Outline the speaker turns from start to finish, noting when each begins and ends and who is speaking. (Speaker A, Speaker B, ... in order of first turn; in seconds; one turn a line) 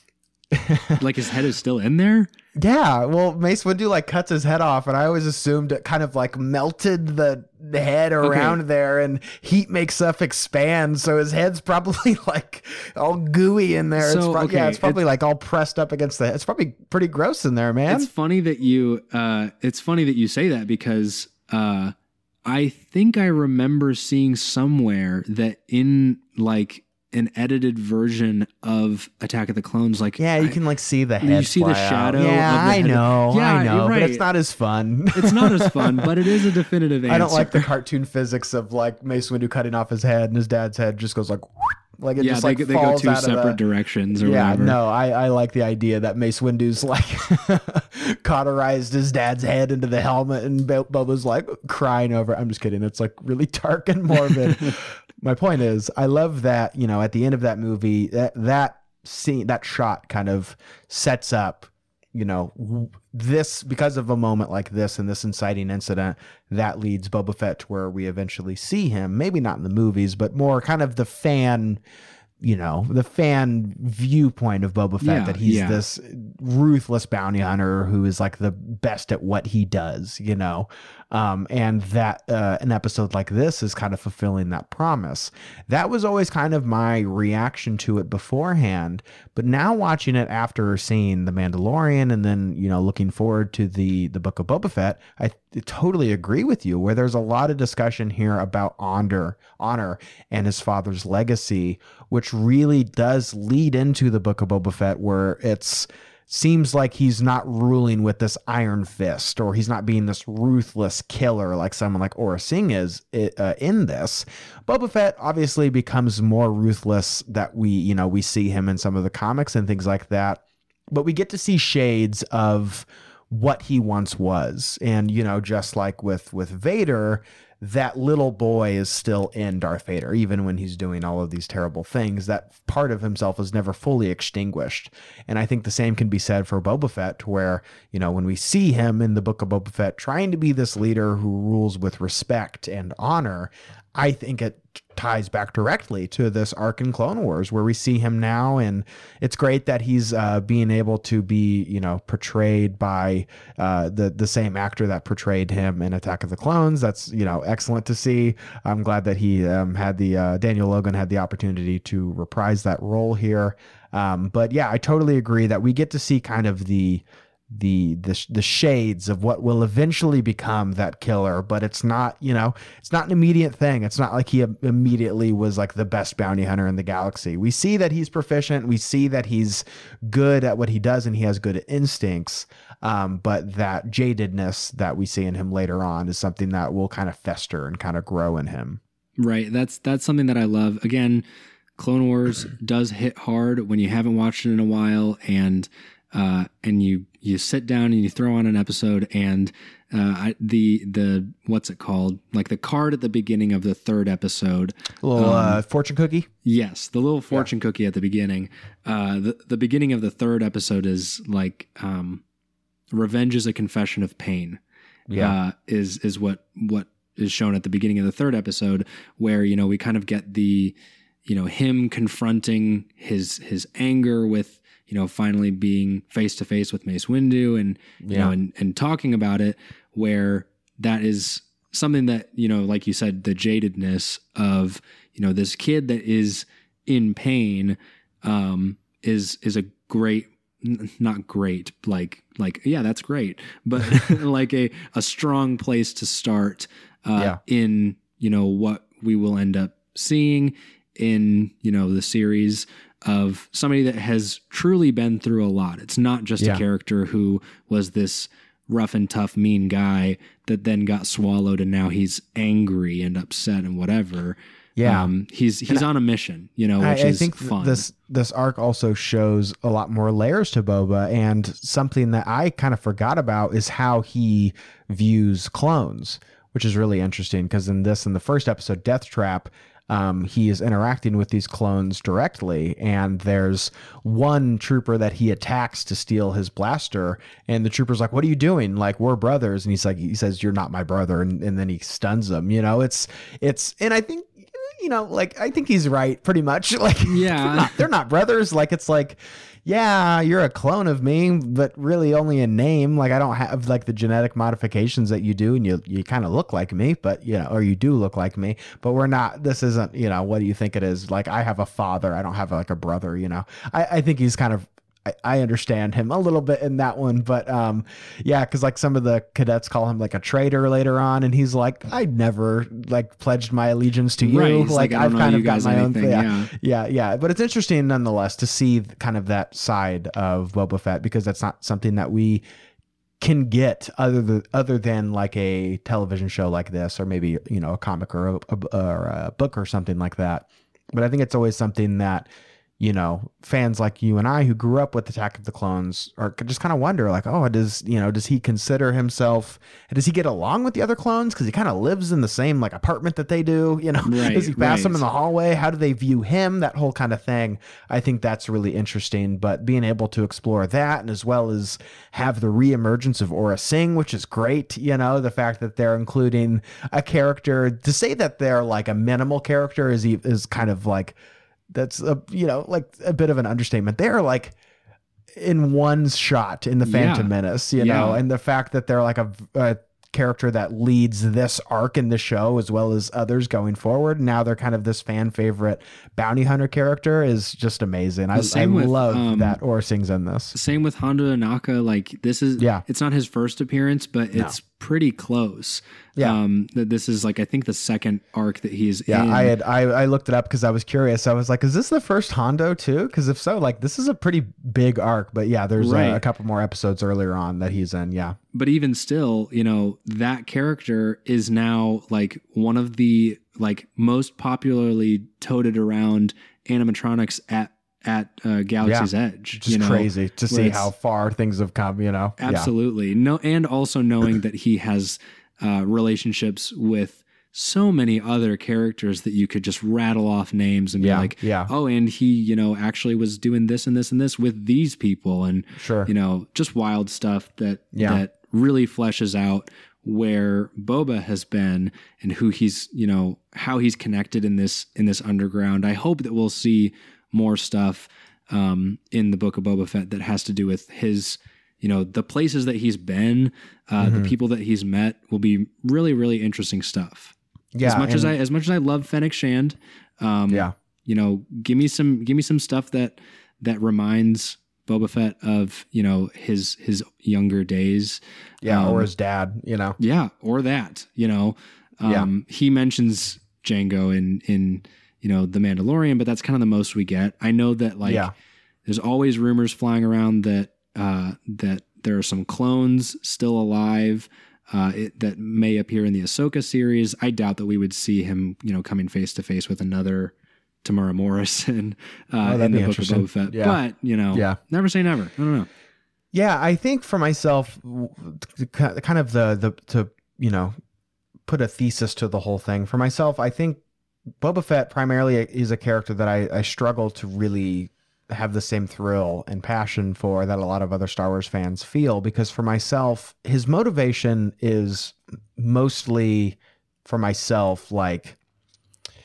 Speaker A: 0.5-1.0
Speaker B: 1.0-2.3
Speaker A: 2.6-18.1
Speaker B: 8.2-8.6
Speaker B: 14.0-15.0
Speaker B: 17.9-21.9
Speaker B: 22.4-30.6
Speaker A: 30.2-36.4
Speaker B: 31.2-34.2
Speaker B: 35.1-37.7
Speaker A: 37.1-43.6
Speaker B: 42.2-44.8
Speaker A: 44.2-71.8
Speaker B: 54.1-54.8
Speaker A: 72.4-188.8
Speaker B: 75.0-75.8
Speaker B: 189.2-191.2
Speaker B: 191.8-205.6
Speaker A: 205.0-206.3
Speaker B: 206.4-212.2
Speaker B: 212.9-214.6
Speaker A: 215.1-215.3
Speaker B: 215.1-220.7
Speaker B: 221.3-267.9
Speaker A: 228.0-228.3
Speaker A: 264.8-265.1
Speaker A: 266.8-332.4
Speaker B: 297.1-297.8
Speaker B: 324.2-326.5
Speaker A: 333.2-342.3
Speaker A: 342.8-371.1
Speaker B: 354.0-355.0
Speaker A: 371.7-374.6
Speaker A: 375.3-390.5
Speaker B: 376.8-378.2
Speaker B: 388.3-389.6
Speaker B: 390.5-399.5
Speaker A: 392.6-392.8
Speaker A: 399.1-408.4
Speaker B: 405.8-406.2
Speaker B: 408.5-420.9
Speaker A: 418.8-422.7
Speaker B: 422.4-469.1
Speaker A: 431.0-431.7
Speaker A: 435.8-436.1
Speaker A: 437.9-438.2
Speaker A: 454.0-454.3
Speaker A: 457.7-458.3
Speaker A: 468.6-470.0
Speaker B: 470.0-478.3
Speaker A: 478.0-478.3
Speaker B: 478.9-495.7
Speaker A: 492.4-493.8
Speaker A: 494.3-494.6
Speaker A: 496.3-500.7
Speaker A: 501.5-503.8
Speaker A: 504.4-518.4